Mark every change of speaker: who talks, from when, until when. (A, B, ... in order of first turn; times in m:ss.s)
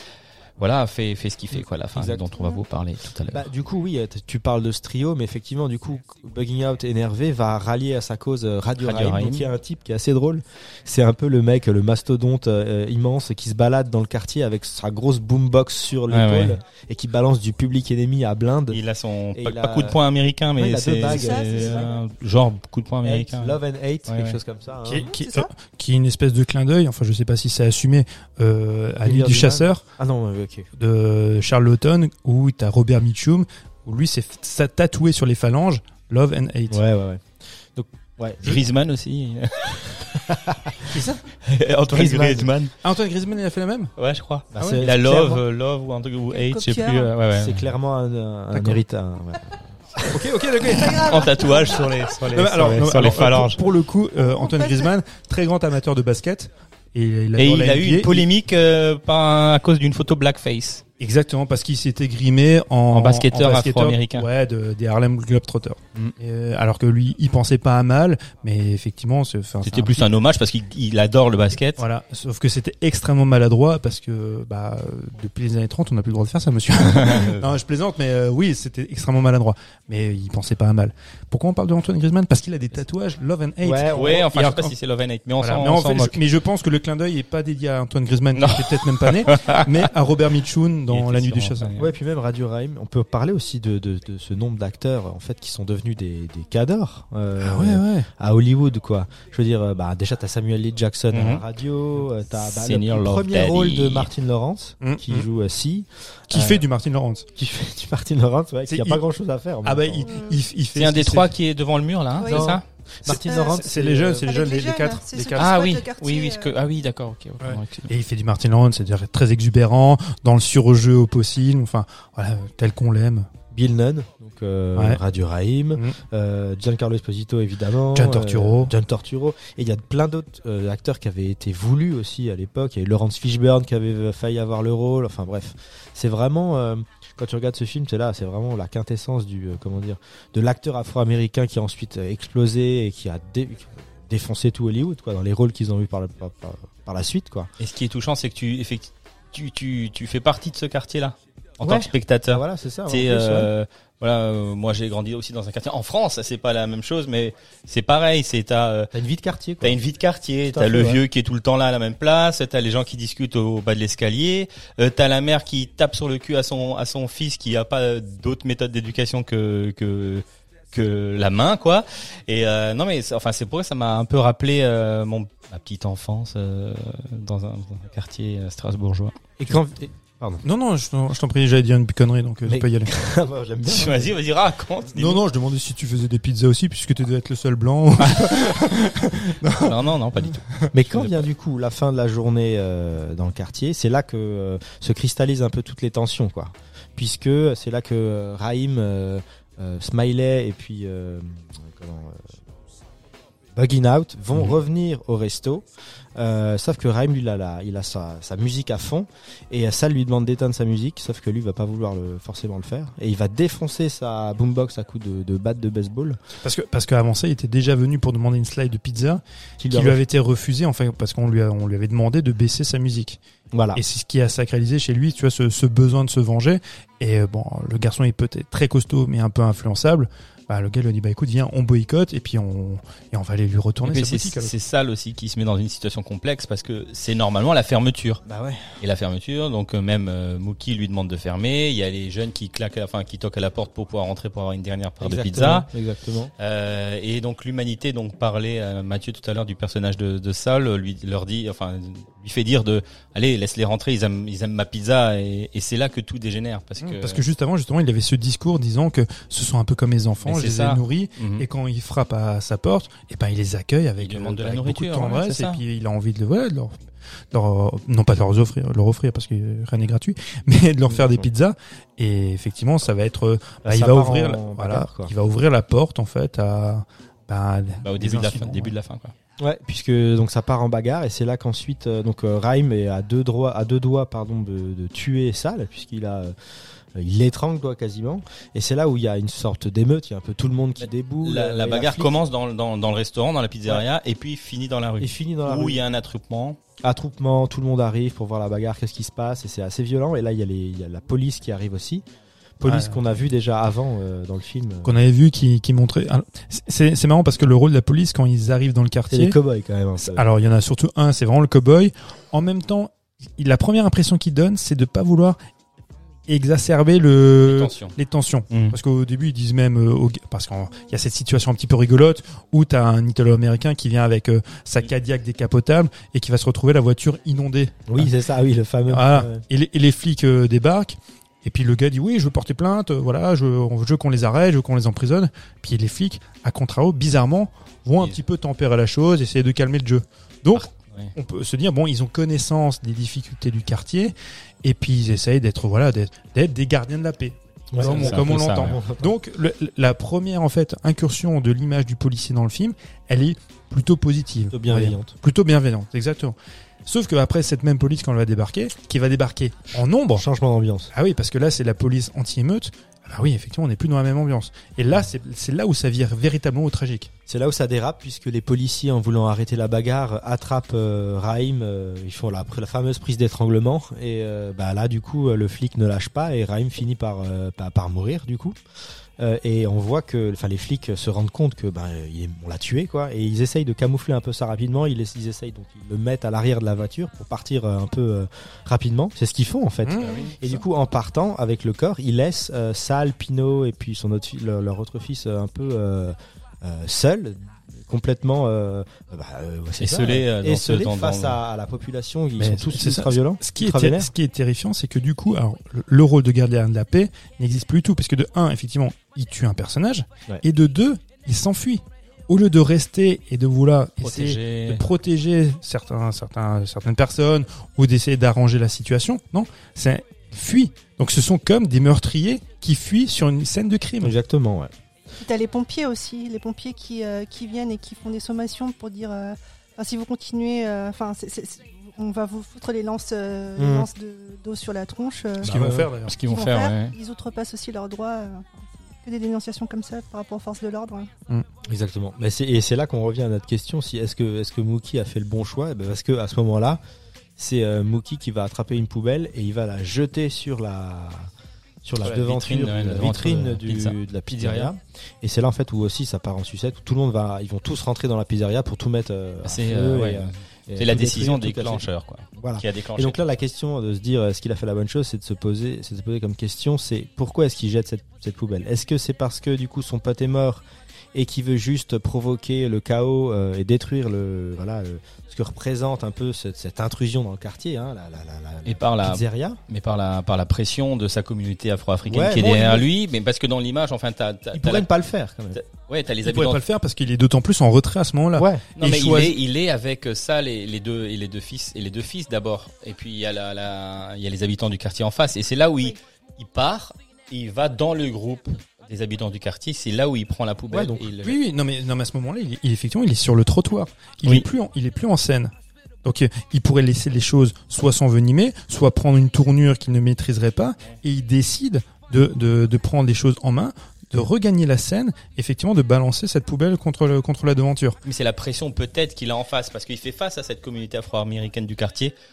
0:00.6-0:03.5 A
0:01.9-0:02.6 B
0:03.3-0:18.8 B
0:08.8-0:09.5 A
0:16.1-0:16.6 A
0:18.7-0:24.4 A
0:19.4-0:20.0 B
0:20.6-0:21.9 B
0:21.0-0:21.9 C
0:23.0-0:25.1 B
0:24.8-0:29.8 D
0:25.0-0:25.5 C
0:29.0-0:30.7 B
0:30.8-0:36.8 D
0:36.7-0:38.6 B
0:38.4-0:40.0 A
0:40.3-0:40.9 B
0:40.9-0:41.2 D
0:41.4-0:42.7 A
0:41.9-0:42.5 B
0:42.8-0:43.9 D
0:44.0-0:47.7 A
0:44.5-0:45.4 B
0:44.5-0:44.8 D
0:46.3-0:47.1 C
0:47.4-0:50.2 B
0:48.5-0:48.8 D
0:50.1-0:51.2 D
0:50.7-0:51.9 C
0:50.9-0:53.6 A
0:52.3-0:58.3 D
0:54.2-0:54.9 C
0:57.4-1:00.8 A
1:01.0-1:10.0 D
1:02.9-1:04.3 A
1:09.6-1:11.8 A
1:11.8-1:24.7 D
1:17.0-1:17.5 A
1:23.6-1:24.3 B
1:23.9-1:26.2 A
1:25.4-1:31.7 D
1:28.3-1:29.9 A
1:30.9-1:31.9 A
1:31.8-1:46.6 B
1:37.4-1:38.1 D
1:41.1-1:41.4 A
1:42.4-1:44.1 A
1:44.8-1:45.2 D
1:46.3-1:47.3 D
1:47.4-1:50.1 B
1:48.7-1:49.0 D
1:49.6-1:51.3 D
1:50.0-1:50.4 C
1:50.7-1:52.6 A
1:52.2-1:52.5 C
1:52.2-1:54.3 B
1:53.1-1:55.6 D
1:53.2-1:53.6 C
1:54.2-1:56.5 C
1:55.4-1:57.9 A
1:57.4-2:03.3 D
2:03.5-2:27.5 B
2:07.9-2:08.7 D
2:27.6-2:38.9 A
2:31.6-2:33.5 B
2:38.9-2:39.8 B
2:39.6-2:59.1 A
2:40.5-2:41.0 B
2:59.4-3:00.4 B
3:00.4-3:02.9 D
3:02.4-3:04.2 B
3:03.6-3:05.2 A
3:04.9-3:10.3 D
3:08.0-3:08.4 A
3:09.6-3:11.2 A
3:10.7-3:22.3 B
3:23.5-3:36.2 B
3:36.4-3:43.2 D
3:39.6-3:40.0 B
3:43.5-3:43.8 B
3:43.7-3:54.5 D
3:53.8-3:58.2 A
3:58.2-3:58.8 B
3:58.8-4:05.7 A
4:05.0-4:06.3 B
4:06.4-4:17.2 A
4:16.8-4:26.7 D
4:20.2-4:21.4 A
4:24.0-4:25.6 A
4:27.3-4:38.7 D
4:30.9-4:31.2 B
4:33.6-4:35.1 B
4:37.8-4:39.1 A
4:39.4-4:46.3 B
4:46.9-4:52.2 B
4:50.8-4:56.6 A
4:55.0-4:55.8 B
4:56.8-5:02.0 B
5:02.6-5:05.0 B
5:02.6-5:03.0 D
5:04.8-5:09.3 D
5:09.1-5:10.2 B
5:10.2-5:15.4 D
5:16.3-5:28.1 D
5:17.4-5:17.9 A
5:18.5-5:18.8 A
5:27.9-5:29.4 B
5:28.9-6:00.2 D
5:40.5-5:41.1 A
5:47.7-5:49.1 B
5:47.8-5:48.8 A
5:54.5-5:55.1 B
6:00.1-6:00.9 B
6:00.9-6:07.1 D
6:07.3-6:18.6 B
6:19.2-6:44.1 B
6:29.8-6:30.6 D
6:30.0-6:30.3 A
6:39.8-6:41.4 A
6:42.4-7:04.1 D
6:54.0-6:54.8 A
7:04.0-7:04.7 B
7:05.2-7:15.5 C
7:13.6-7:13.9 B
7:15.4-7:15.9 B
7:15.4-7:16.1 D
7:16.0-7:16.9 A
7:16.3-7:21.1 C
7:21.6-7:26.8 B
7:27.4-7:31.3 B
7:31.8-7:41.8 B
7:32.0-7:34.7 A
7:39.4-7:43.2 A
7:42.4-7:59.6 B
7:58.6-8:04.9 A
8:02.1-8:02.8 B
8:04.5-8:05.6 B
8:05.5-8:06.6 A
8:06.2-8:09.3 D
8:08.4-8:08.6 B
8:08.8-8:21.4 A
8:20.7-8:21.1 B
8:21.2-8:25.5 D
8:26.0-8:38.0 D
8:38.0-8:42.1 A